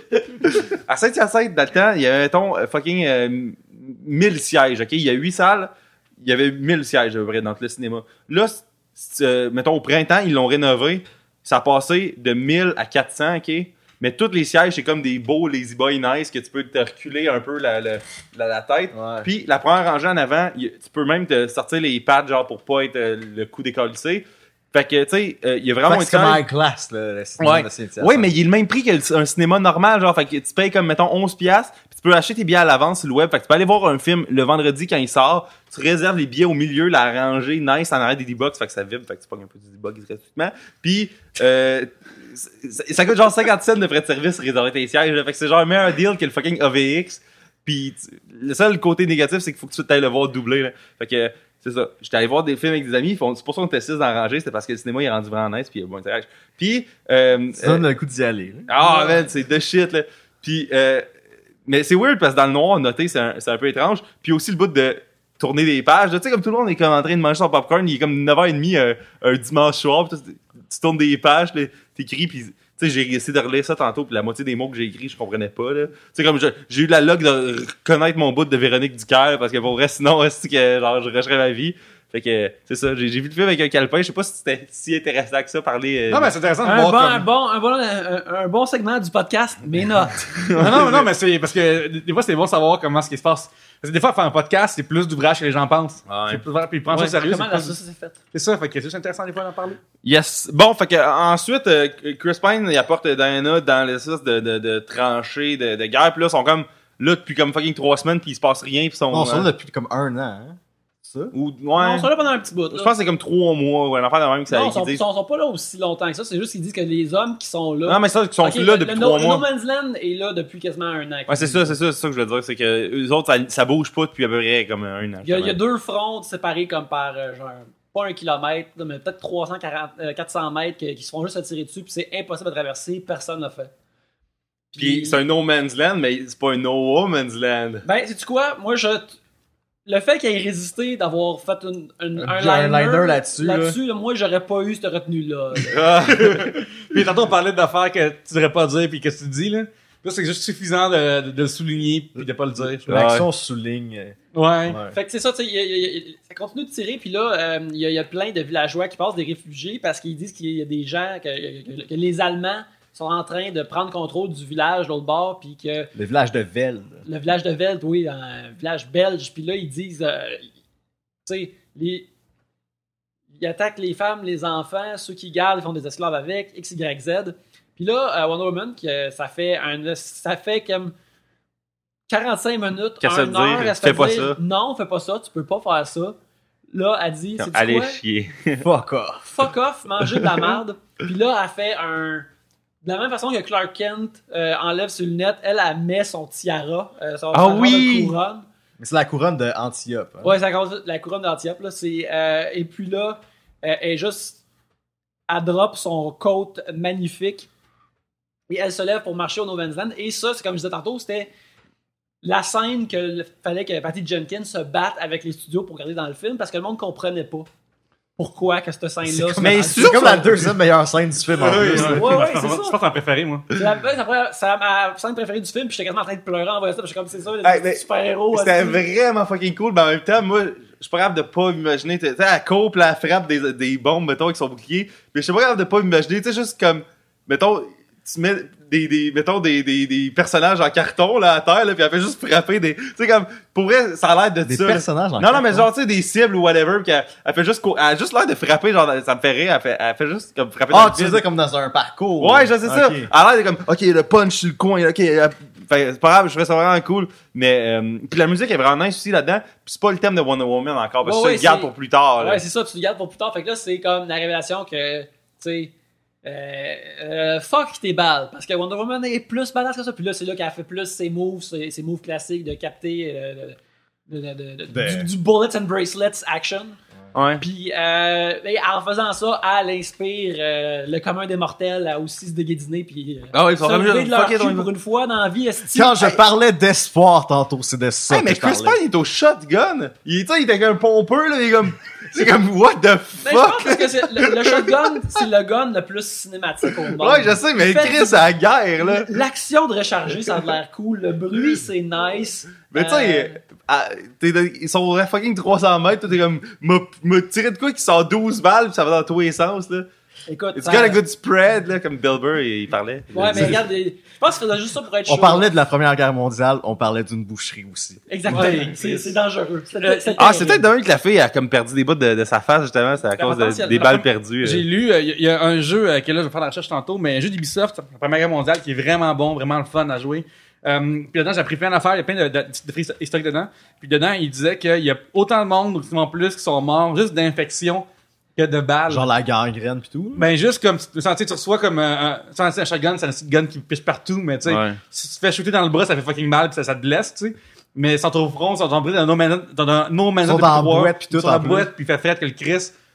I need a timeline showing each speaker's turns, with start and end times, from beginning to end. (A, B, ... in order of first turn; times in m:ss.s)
0:00.4-0:26.4 A
0:18.9-0:19.3 B
0:25.8-0:28.3 B
0:27.4-0:57.8 A
0:57.6-0:58.7 B
0:58.7-1:01.1 A
0:58.8-0:59.3 C
1:01.7-1:26.3 A
1:26.1-1:27.3 D
1:26.6-1:30.8 C
1:30.3-1:31.1 A
1:30.6-1:37.8 D
1:36.1-1:36.4 A
1:36.9-1:38.2 C
1:38.3-1:39.8 D
1:40.0-1:49.5 A
1:49.1-1:51.3 B
1:51.3-1:52.1 A
1:51.8-1:52.9 C
1:52.7-1:55.0 A
1:54.5-2:01.7 C
1:57.9-1:59.4 A
2:01.3-2:05.6 A
2:05.2-2:13.7 C
2:14.7-2:15.2 C
2:14.8-2:17.8 A
2:17.8-2:19.2 C
2:19.9-2:25.9 C
2:22.2-2:23.8 B
2:25.7-2:26.5 A
2:26.2-2:33.0 D
2:32.2-2:35.0 B
2:32.9-2:33.2 A
2:34.3-2:34.8 D
2:34.9-2:45.9 C
2:46.0-2:47.0 B
2:47.0-2:50.5 C
2:51.2-2:52.1 C
2:53.3-3:00.9 C
3:02.1-3:06.2 C
3:03.0-3:04.4 A
3:06.7-3:08.0 C
3:07.4-3:08.7 A
3:08.6-3:09.5 B
3:09.3-3:12.3 C
3:12.8-3:18.4 C
3:17.3-3:18.2 A
3:18.8-3:20.3 B
3:20.2-3:24.4 C
3:25.3-3:27.5 C
3:28.5-3:31.3 C
3:32.2-3:37.5 C
3:38.2-3:40.3 C
3:39.1-3:42.1 B
3:39.3-3:40.5 A
3:41.3-3:43.5 D
3:41.8-3:42.8 C
3:43.5-3:48.8 C
3:47.4-4:11.2 A
4:04.4-4:05.7 B
4:10.7-4:13.1 B
4:12.2-4:22.4 A
4:21.0-4:25.7 C
4:26.2-4:36.8 C
4:34.7-4:35.1 B
4:37.1-4:37.4 A
4:37.4-4:46.2 C
4:43.3-4:44.7 A
4:45.7-4:48.8 B
4:48.1-4:55.2 A
4:53.2-4:58.3 C
4:56.9-4:59.1 A
4:58.8-5:03.4 C
5:02.7-5:09.9 A
5:10.3-5:11.0 C
5:10.5-5:13.6 A
5:13.1-5:15.5 C
5:13.1-5:13.6 B
5:15.0-5:18.0 B
5:18.1-5:20.6 C
5:18.3-5:19.2 D
5:19.7-5:20.6 D
5:20.2-5:24.6 A
5:23.2-5:24.1 C
5:24.4-5:39.1 D
5:38.9-5:40.3 B
5:40.1-5:52.7 D
5:44.4-5:44.8 A
5:50.2-5:51.7 B